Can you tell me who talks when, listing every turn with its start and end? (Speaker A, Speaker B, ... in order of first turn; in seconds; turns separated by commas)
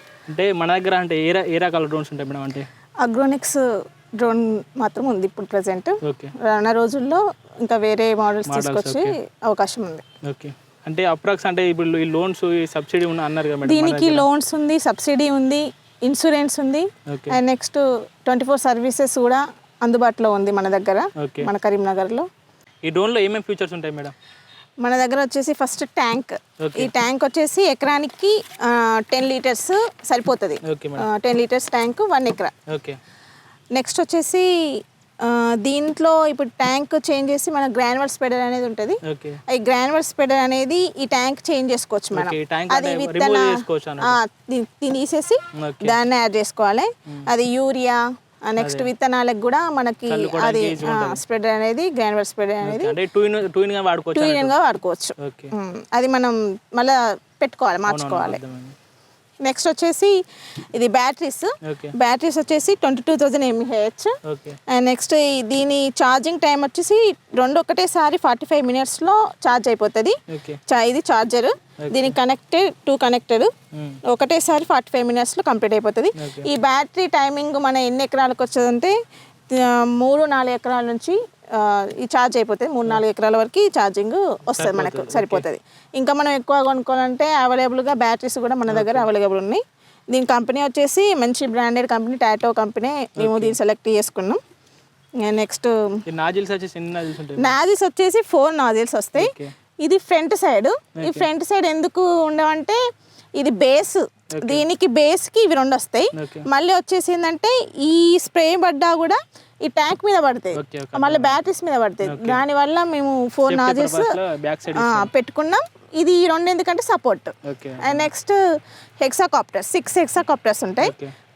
Speaker A: 0.3-2.7, Speaker B: 3.0-3.6, Speaker B: 4.2-10.0, Speaker A: 6.0-6.3, Speaker A: 8.5-9.1, Speaker A: 10.2-14.2, Speaker B: 13.6-22.3, Speaker A: 17.1-17.4, Speaker A: 21.2-21.5, Speaker A: 22.8-24.1, Speaker B: 24.8-32.5, Speaker A: 26.6-26.9, Speaker A: 30.6-31.1, Speaker A: 32.7-33.0, Speaker B: 33.7-53.0, Speaker A: 39.0-39.4, Speaker A: 42.1-44.2, Speaker A: 45.5-46.0, Speaker A: 48.6-48.9, Speaker A: 50.1-51.2, Speaker A: 52.6-54.5, Speaker B: 54.1-58.4, Speaker A: 55.2-55.5, Speaker A: 57.9-58.8, Speaker B: 59.4-60.1, Speaker B: 60.7-64.1, Speaker A: 61.6-61.9, Speaker A: 64.2-64.6, Speaker B: 64.7-73.5, Speaker A: 70.3-70.6, Speaker A: 71.8-72.2, Speaker A: 73.7-74.0, Speaker B: 74.1-78.9, Speaker A: 76.2-76.5, Speaker B: 79.5-94.4, Speaker A: 84.5-85.5, Speaker A: 88.7-89.1, Speaker A: 93.2-93.6, Speaker B: 95.2-95.7, Speaker A: 96.1-97.5, Speaker B: 97.4-102.8, Speaker A: 99.2-99.5, Speaker A: 101.0-101.2, Speaker B: 103.4-114.2, Speaker A: 104.3-104.6, Speaker A: 106.1-106.5, Speaker A: 110.5-111.3, Speaker A: 112.0-112.4, Speaker A: 113.5-115.1, Speaker B: 114.7-118.4, Speaker A: 117.4-118.1, Speaker B: 119.0-120.9, Speaker A: 120.8-121.1